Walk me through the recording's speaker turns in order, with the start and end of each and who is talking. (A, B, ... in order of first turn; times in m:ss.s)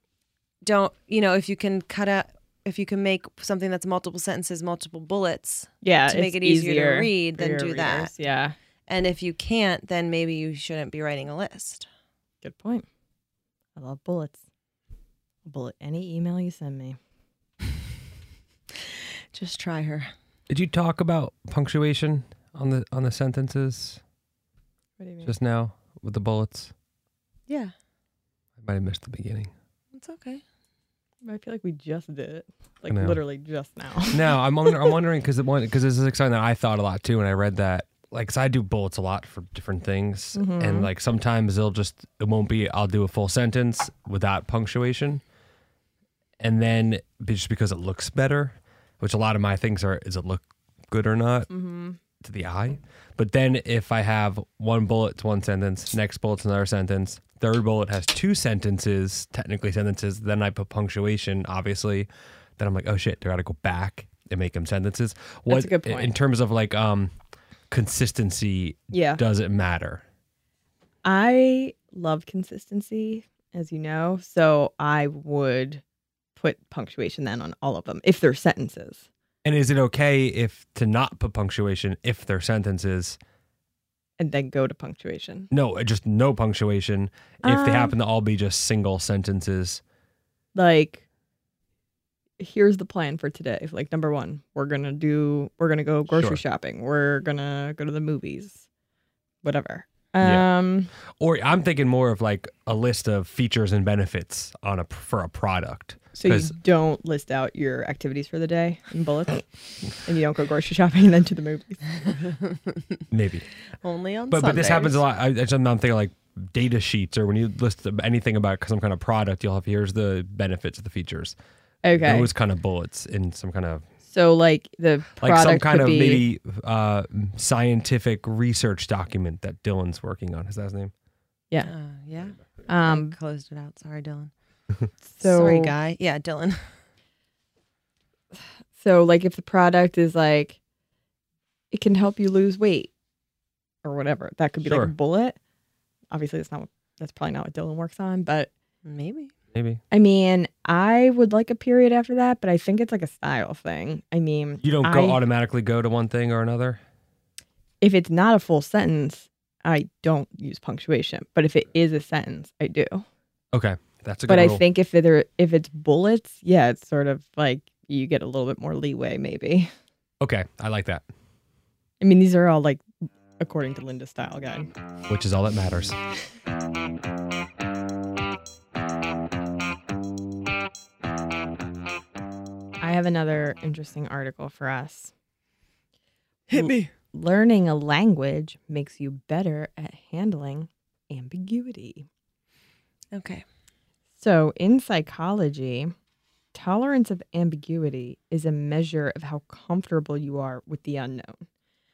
0:00.6-0:08.1 A
0:05.8-0:08.6 B
0:08.9-0:11.9 A
0:12.4-0:12.8 B
0:13.8-0:14.4 B
0:15.4-0:17.0 B
0:19.3-0:20.1 A
0:20.5-0:24.0 C
0:25.0-0:25.3 B
0:25.2-0:26.7 C
0:27.5-0:27.7 A
0:28.6-0:29.5 C
0:29.9-0:30.4 A
0:31.2-0:34.4 B
0:32.9-0:33.2 C
0:34.1-0:45.2 C
0:40.3-0:40.9 B
0:46.4-0:51.5 C
0:51.5-0:52.0 B
0:52.2-1:02.1 C
1:02.6-1:07.1 C
1:05.5-1:06.1 B
1:07.7-1:10.0 C
1:08.9-1:09.2 B
1:11.0-1:15.8 B
1:16.4-1:19.0 B
1:19.4-1:23.2 C
1:24.2-1:25.5 B
1:25.5-1:29.8 C
1:27.4-1:27.9 B
1:30.5-1:31.0 B
1:32.4-1:38.6 B
1:36.1-1:36.4 C
1:39.4-1:40.9 B
1:40.2-1:40.5 C
1:41.2-1:46.5 C
1:46.1-1:52.2 B
1:52.5-1:52.8 A
1:53.1-1:53.5 C
1:53.8-1:55.0 A
1:54.3-2:01.3 C
2:01.8-2:02.3 B
2:01.9-2:03.8 C
2:04.1-2:06.2 B
2:05.2-2:10.9 C
2:11.6-2:14.3 A
2:12.7-2:13.2 B
2:15.1-2:15.7 B
2:15.2-2:16.6 A
2:18.8-2:20.6 B
2:21.7-2:22.9 B
2:23.8-2:25.4 B
2:24.6-2:24.9 C
2:26.1-2:28.5 B
2:28.8-2:29.3 A
2:29.5-2:29.8 C
2:29.9-2:35.2 B
2:34.6-2:36.8 C
2:37.8-2:43.0 B
2:43.5-2:44.6 C
2:44.3-2:49.7 B
2:50.2-2:51.0 C
2:52.0-2:52.8 B
2:53.4-2:54.7 B
2:55.1-2:56.0 C
3:02.8-3:05.1 B
3:06.5-3:06.9 A
3:06.5-3:12.1 B
3:13.1-3:13.4 A
3:14.2-3:15.9 B
3:16.5-3:21.4 B